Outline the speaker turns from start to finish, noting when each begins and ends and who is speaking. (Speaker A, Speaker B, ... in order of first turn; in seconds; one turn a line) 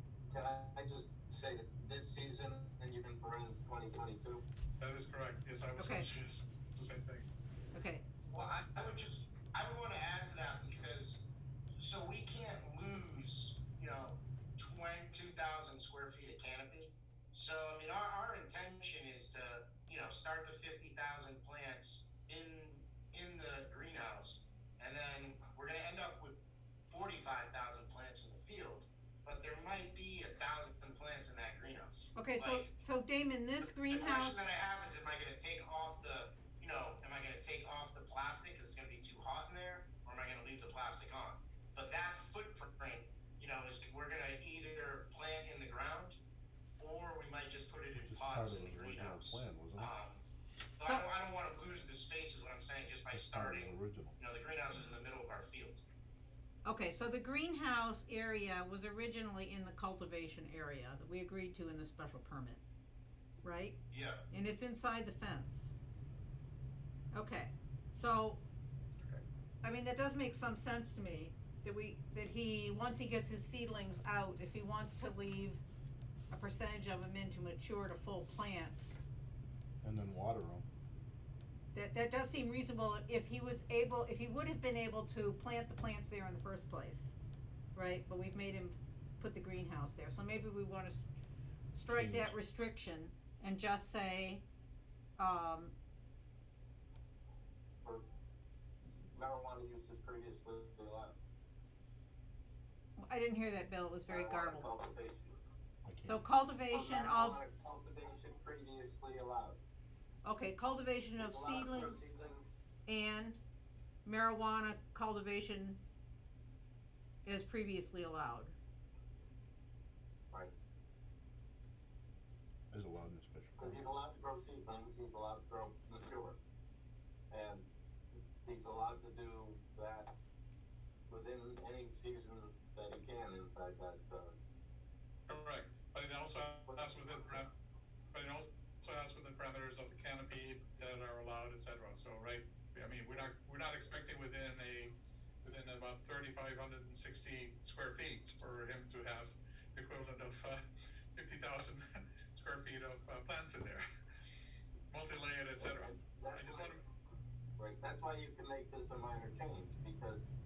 Speaker A: 0.3-4.4
Speaker B: 4.8-7.3
Speaker C: 5.8-6.1
Speaker C: 7.7-8.0
Speaker D: 8.3-11.3
Speaker D: 11.8-26.4
Speaker D: 26.9-32.7
Speaker C: 32.1-34.5
Speaker D: 33.6-46.2
Speaker D: 46.8-50.2
Speaker E: 48.0-49.9
Speaker D: 50.8-55.8
Speaker E: 53.1-54.2
Speaker C: 56.6-62.6
Speaker C: 63.4-65.7
Speaker D: 63.9-64.3
Speaker C: 67.1-68.4
Speaker C: 69.6-75.6
Speaker C: 76.3-79.0
Speaker E: 79.8-80.7
Speaker C: 81.7-87.1
Speaker C: 87.8-91.0
Speaker C: 91.8-94.5
Speaker E: 91.9-92.3
Speaker C: 95.2-95.7
Speaker A: 99.0-101.2
Speaker C: 103.0-104.7
Speaker A: 104.1-105.3
Speaker E: 105.8-106.2
Speaker C: 106.1-107.4
Speaker A: 106.7-109.6
Speaker C: 110.2-112.1
Speaker A: 111.2-112.5
Speaker C: 112.9-113.4
Speaker C: 114.0-115.8
Speaker C: 117.2-118.5
Speaker E: 122.7-123.9
Speaker A: 123.6-126.4
Speaker A: 127.3-127.7
Speaker A: 128.4-130.1
Speaker A: 131.1-134.3
Speaker B: 135.3-137.5
Speaker B: 138.1-150.6
Speaker B: 151.1-153.8
Speaker B: 154.9-156.8
Speaker A: 155.6-156.8
Speaker A: 157.6-160.2